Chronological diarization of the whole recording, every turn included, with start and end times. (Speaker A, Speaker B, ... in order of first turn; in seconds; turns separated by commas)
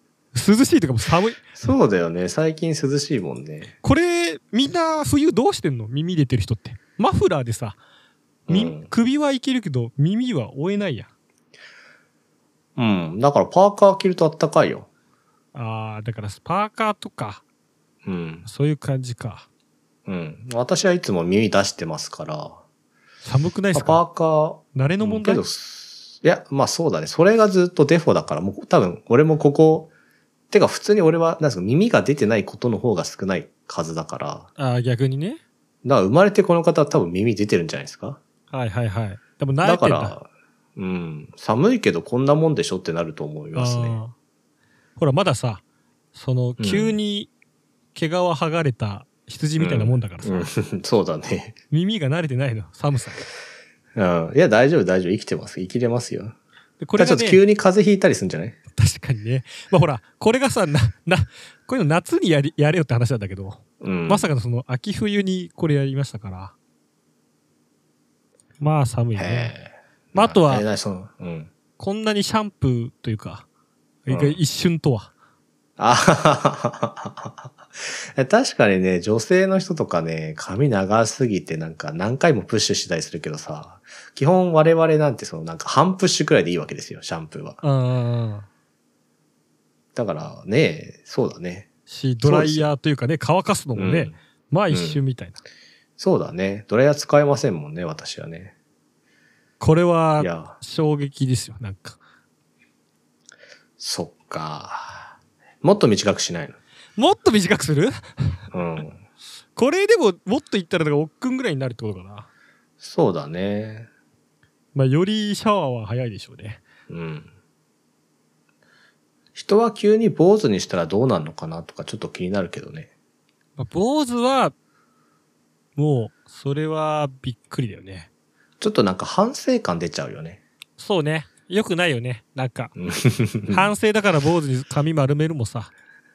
Speaker A: 0.3-1.6, Speaker B: 1.6-3.7, Speaker A: 3.8-7.8, Speaker B: 8.5-8.9, Speaker A: 8.5-11.1, Speaker B: 12.8-14.9, Speaker A: 15.5-17.4, Speaker B: 18.1-18.5, Speaker A: 18.4-19.5, Speaker B: 20.1-22.6, Speaker A: 23.2-24.0, Speaker B: 23.7-29.9, Speaker A: 24.8-25.4, Speaker B: 30.5-34.5, Speaker A: 34.6-35.4, Speaker B: 35.8-38.2, Speaker A: 38.5-40.1, Speaker B: 39.6-44.0, Speaker A: 43.5-44.1, Speaker A: 45.0-45.6, Speaker A: 46.1-47.3, Speaker B: 46.6-47.0, Speaker A: 48.0-50.5, Speaker B: 49.6-51.6, Speaker A: 51.7-53.2, Speaker B: 54.0-56.4, Speaker A: 56.8-57.4, Speaker B: 57.0-58.6, Speaker A: 58.7-66.5, Speaker B: 63.8-64.3, Speaker A: 68.6-69.5, Speaker B: 69.2-71.5, Speaker A: 70.2-70.7, Speaker A: 71.8-73.5, Speaker A: 74.1-75.1, Speaker B: 74.1-74.4, Speaker B: 75.8-87.6, Speaker A: 87.6-88.5, Speaker B: 90.0-91.7, Speaker A: 91.9-95.4, Speaker B: 92.2-92.7, Speaker B: 93.8-94.2, Speaker B: 94.7-95.0, Speaker B: 96.0-98.5, Speaker A: 99.6-102.0, Speaker B: 100.2-100.6, Speaker B: 103.8-106.6, Speaker A: 107.0-108.4, Speaker B: 108.5-109.0, Speaker A: 109.6-112.3, Speaker B: 112.8-113.9, Speaker A: 114.8-116.6, Speaker B: 116.9-117.3, Speaker B: 119.4-122.9, Speaker A: 123.6-124.5, Speaker A: 125.8-128.1, Speaker B: 128.6-130.4, Speaker A: 130.8-132.7, Speaker B: 132.8-133.7, Speaker A: 133.5-135.7